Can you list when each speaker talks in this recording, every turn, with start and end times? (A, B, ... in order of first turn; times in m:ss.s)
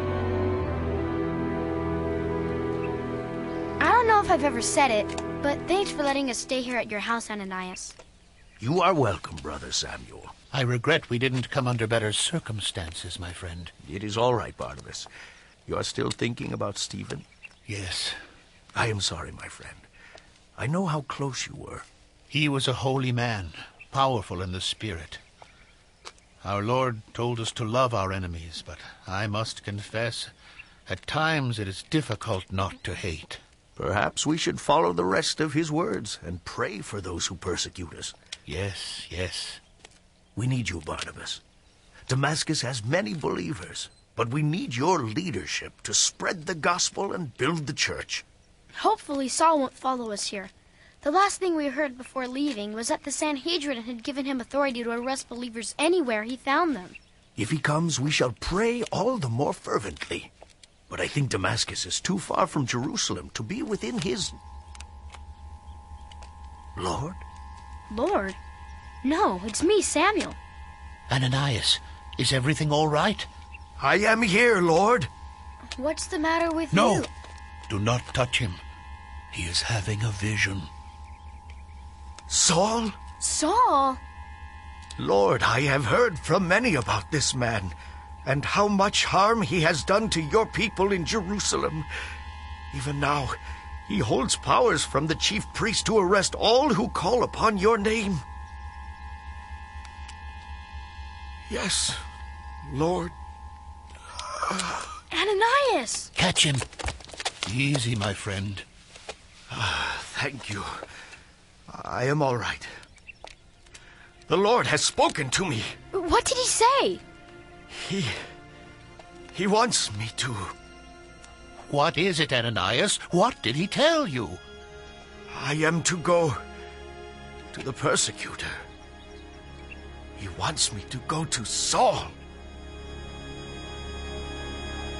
0:03.8-0:08.0 A
0:08.6-0:10.4 B
0:10.5-0:13.7 C
0:13.8-0:15.1 B
0:15.6-0:17.2 B
0:17.7-0:18.2 C
0:18.7-0:19.9 B
0:20.6-0:21.9 B
0:22.3-0:25.2 C
0:26.4-0:30.3 C
0:30.9-0:33.4 C
0:33.8-0:38.1 B
0:38.5-0:39.6 C
0:40.4-0:41.4 B
0:42.1-0:48.2 B
0:48.8-0:50.5 A
0:51.0-0:57.0 A
0:57.4-1:00.3 B
1:00.9-1:04.4 B
1:06.8-1:07.2 B
1:07.9-1:08.4 A
1:09.0-1:10.4 A
1:11.1-1:13.3 C
1:13.8-1:15.1 B
1:15.7-1:17.1 A
1:16.7-1:17.1 C
1:17.7-1:18.6 C
1:19.3-1:20.7 C
1:22.3-1:23.0 B
1:23.2-1:24.0 A
1:25.0-1:31.9 B
1:32.7-1:38.2 B
1:41.5-1:42.0 B
1:42.6-1:43.1 B
1:45.1-1:46.1 A
1:46.1-1:46.6 C
1:47.4-1:48.6 C
1:49.5-1:50.8 B
1:51.7-1:52.7 B
1:54.3-1:55.8 B
1:55.9-1:57.0 A
1:57.7-1:58.2 B
1:59.3-2:00.5 B
2:01.6-2:04.4 C
2:05.3-2:06.4 B
2:07.5-2:08.5 B
2:10.2-2:12.1 B